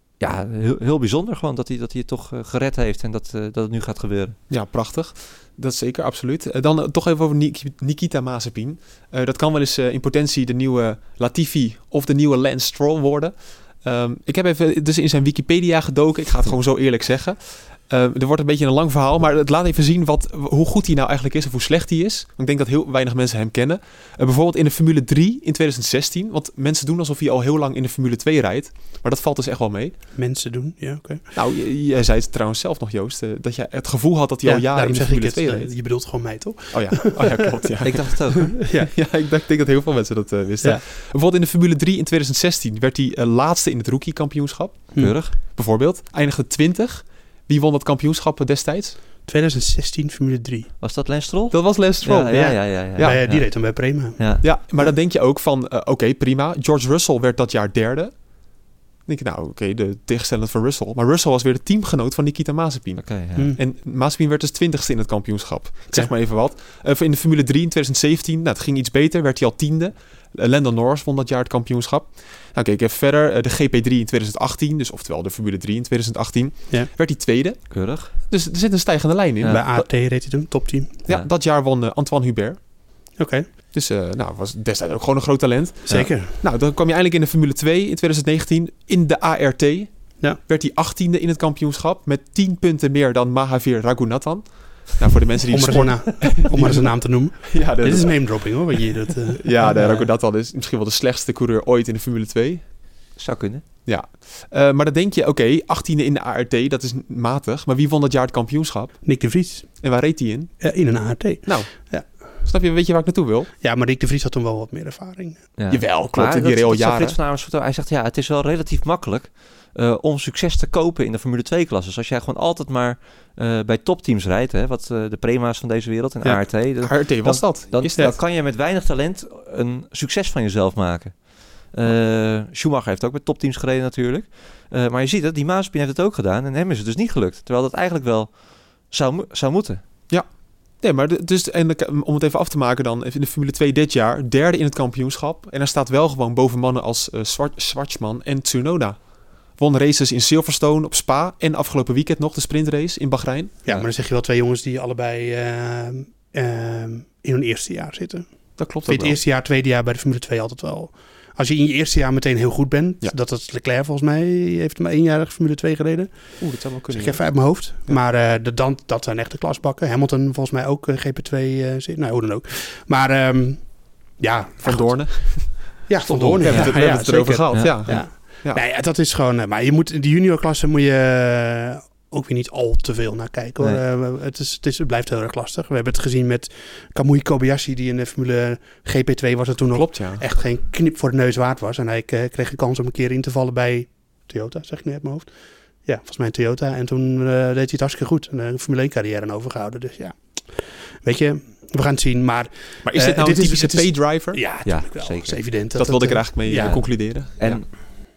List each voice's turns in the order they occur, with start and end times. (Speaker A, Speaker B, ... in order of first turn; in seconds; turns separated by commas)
Speaker A: 0.2-4.4, Speaker B: 4.5-30.0, Speaker C: 30.1-31.3, Speaker B: 31.3-35.9, Speaker C: 34.4-37.4, Speaker B: 36.7-49.0, Speaker A: 37.8-38.6, Speaker A: 45.0-45.4, Speaker C: 49.2-50.7, Speaker A: 50.8-54.5, Speaker B: 51.5-53.5, Speaker C: 53.0-54.9, Speaker B: 54.4-79.6, Speaker A: 63.0-63.5, Speaker A: 77.7-78.2, Speaker A: 79.4-79.9, Speaker C: 79.5-81.0, Speaker B: 81.1-82.6, Speaker C: 83.2-83.5, Speaker B: 83.7-102.6, Speaker C: 85.9-86.4, Speaker C: 95.5-100.0, Speaker A: 103.2-103.6, Speaker B: 103.9-109.1, Speaker C: 109.0-109.8, Speaker B: 109.8-110.7, Speaker C: 110.6-112.2, Speaker B: 111.5-113.5, Speaker C: 113.6-115.5, Speaker A: 115.6-139.8, Speaker B: 115.7-117.2, Speaker B: 126.2-128.2, Speaker B: 140.1-153.8, Speaker C: 153.6-195.3, Speaker B: 158.6-159.2, Speaker B: 166.4-167.2, Speaker B: 174.6-178.6, Speaker A: 176.4-178.1, Speaker B: 189.7-190.2, Speaker C: 195.8-207.9, Speaker B: 202.8-204.5, Speaker A: 204.6-205.5, Speaker B: 205.7-207.6, Speaker A: 206.5-207.7